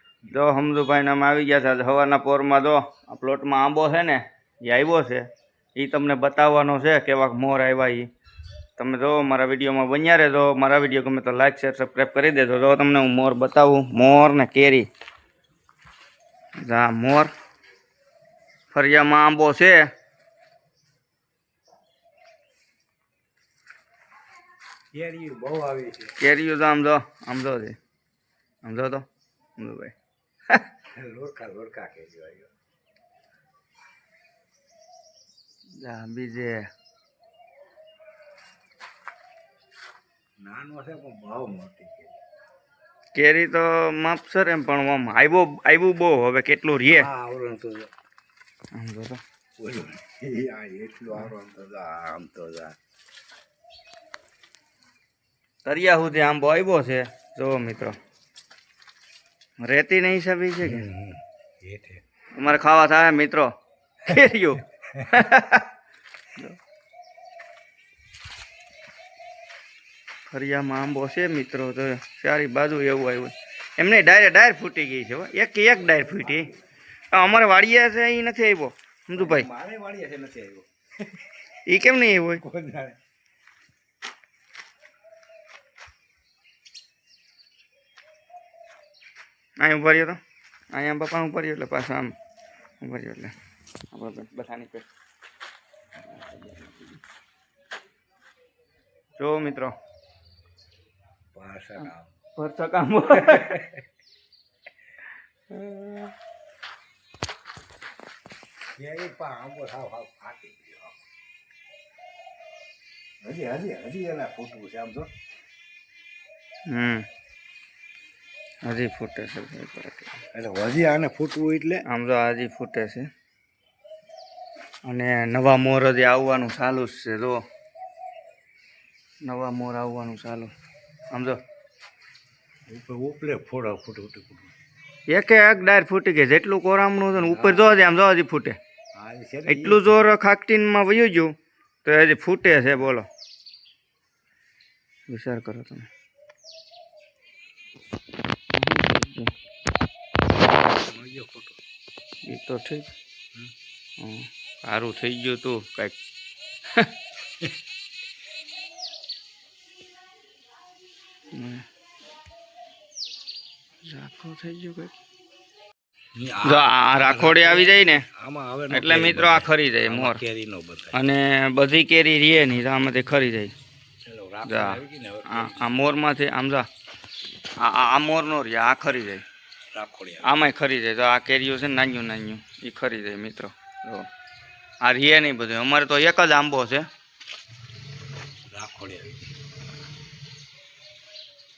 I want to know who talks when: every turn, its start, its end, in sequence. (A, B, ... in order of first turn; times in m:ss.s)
0:00.3-0:05.2 A
0:05.8-0:08.1 A
0:08.8-0:14.9 A
0:16.6-0:17.3 A
0:18.7-0:19.9 A
0:24.9-0:26.2 B
0:26.2-0:27.8 A
0:28.6-0:29.0 A
0:29.6-0:29.9 A
0:30.9-0:32.5 B
0:35.8-0:36.7 A
0:40.4-0:42.2 B
0:43.1-0:47.1 A
0:46.9-0:47.9 B
0:48.7-0:49.2 A
0:49.6-0:52.8 B
0:55.6-0:58.0 A
0:59.6-1:00.9 A
1:00.6-1:02.0 B
1:02.3-1:03.5 A
1:04.0-1:05.7 A
1:10.3-1:16.5 A
1:16.0-1:16.5 B
1:17.1-1:19.5 A
1:19.1-1:21.3 B
1:21.7-1:22.4 A
1:22.4-1:23.0 B
1:29.6-1:30.2 A
1:30.7-1:32.1 A
1:32.8-1:33.3 A
1:33.9-1:34.9 A
1:36.0-1:37.0 A
1:39.2-1:39.7 A
1:41.3-1:42.1 B
1:41.8-1:43.6 A
1:43.2-1:43.8 B
1:45.5-1:46.1 A
1:48.8-1:51.0 B
1:53.2-1:55.1 B
1:56.7-1:57.0 A
1:58.6-2:00.1 A
2:00.3-2:01.8 B
2:01.9-2:03.1 A
2:04.8-2:07.4 A
2:09.2-2:10.5 A
2:11.1-2:11.4 A
2:12.7-2:14.5 B
2:15.1-2:18.6 A
2:17.2-2:17.7 B
2:18.9-2:19.9 B
2:19.5-2:21.3 A
2:21.8-2:23.1 A
2:25.1-2:25.9 A
2:28.5-2:29.3 A
2:30.6-2:31.6 B
2:32.2-2:32.9 A
2:34.0-2:35.9 A
2:41.3-2:41.6 A
2:43.8-2:44.9 A
2:46.2-2:51.0 B
2:46.4-2:48.0 A
2:48.7-2:50.2 A
2:50.9-2:53.5 A
2:54.0-2:55.8 B
2:54.4-2:56.7 A
2:57.6-2:59.2 A
2:59.7-3:00.4 B
3:00.2-3:04.1 A
3:04.8-3:06.9 A
3:08.5-3:09.3 B